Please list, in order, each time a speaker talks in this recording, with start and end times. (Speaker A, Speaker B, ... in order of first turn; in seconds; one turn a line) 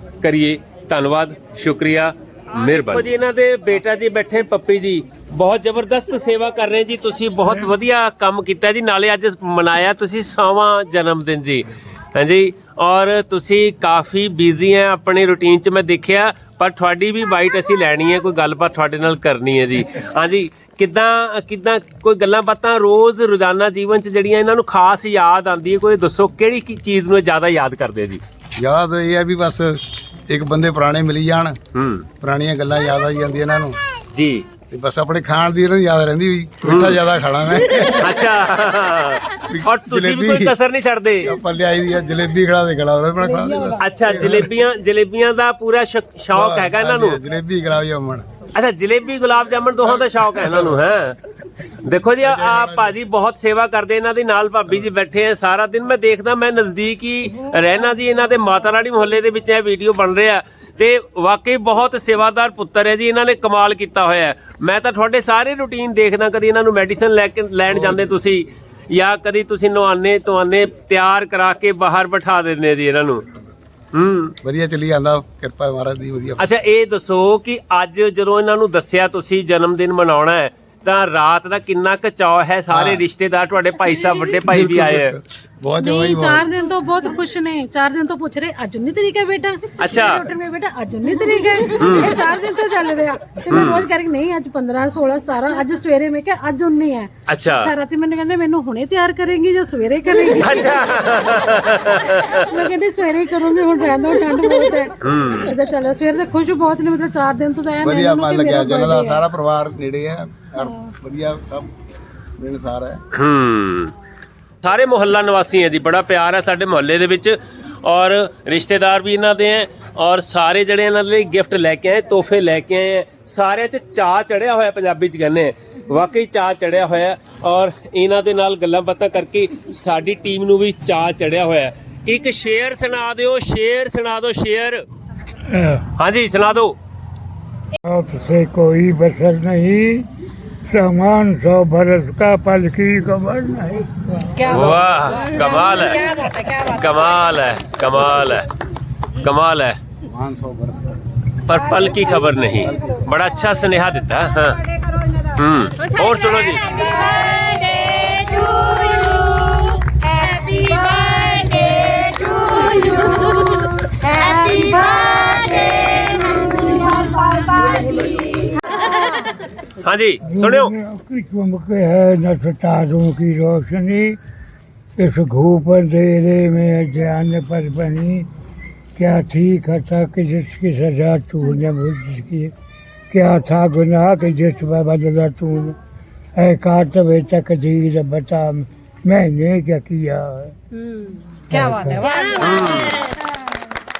Speaker A: 0.2-28.2
Speaker B: 28.6-31.6
Speaker A: 31.7-32.1
Speaker B: 32.2-33.8
Speaker A: 34.1-34.4
Speaker B: 34.7-38.2
Speaker A: 36.6-37.0
Speaker A: 37.7-41.3
Speaker B: 39.5-40.6
Speaker B: 41.2-44.5
Speaker A: 43.8-47.2
Speaker B: 46.3-48.2
Speaker A: 48.5-51.2
Speaker B: 50.4-50.7
Speaker A: 51.8-73.2
Speaker B: 52.2-52.9
Speaker A: 73.9-74.3
Speaker B: 74.4-76.4
Speaker A: 76.4-85.2
Speaker B: 82.7-83.0
Speaker B: 84.5-86.5
Speaker C: 85.8-109.2
Speaker A: 89.8-90.2
Speaker A: 91.8-92.1
Speaker A: 93.5-93.8
Speaker A: 97.3-97.7
Speaker A: 100.4-102.4
Speaker A: 105.0-105.5
Speaker B: 107.8-111.7
Speaker B: 112.4-113.0
Speaker A: 113.1-113.9
Speaker A: 114.6-134.8
Speaker D: 135.5-135.8
Speaker A: 135.9-136.8
Speaker D: 137.8-140.1
Speaker D: 140.7-144.5
Speaker E: 144.4-147.3
Speaker A: 144.5-146.0
Speaker A: 146.6-148.5
Speaker A: 149.2-149.8
Speaker B: 150.1-151.0
Speaker A: 151.5-154.6
Speaker E: 151.5-159.3
Speaker A: 155.3-156.7
Speaker E: 159.9-169.0
Speaker A: 169.8-170.7
Speaker D: 170.3-174.2
Speaker D: 175.0-178.3
Speaker D: 178.9-182.5
Speaker D: 183.1-185.8
Speaker D: 186.3-190.5
Speaker E: 190.8-192.8
Speaker D: 191.5-192.1
Speaker A: 192.4-193.1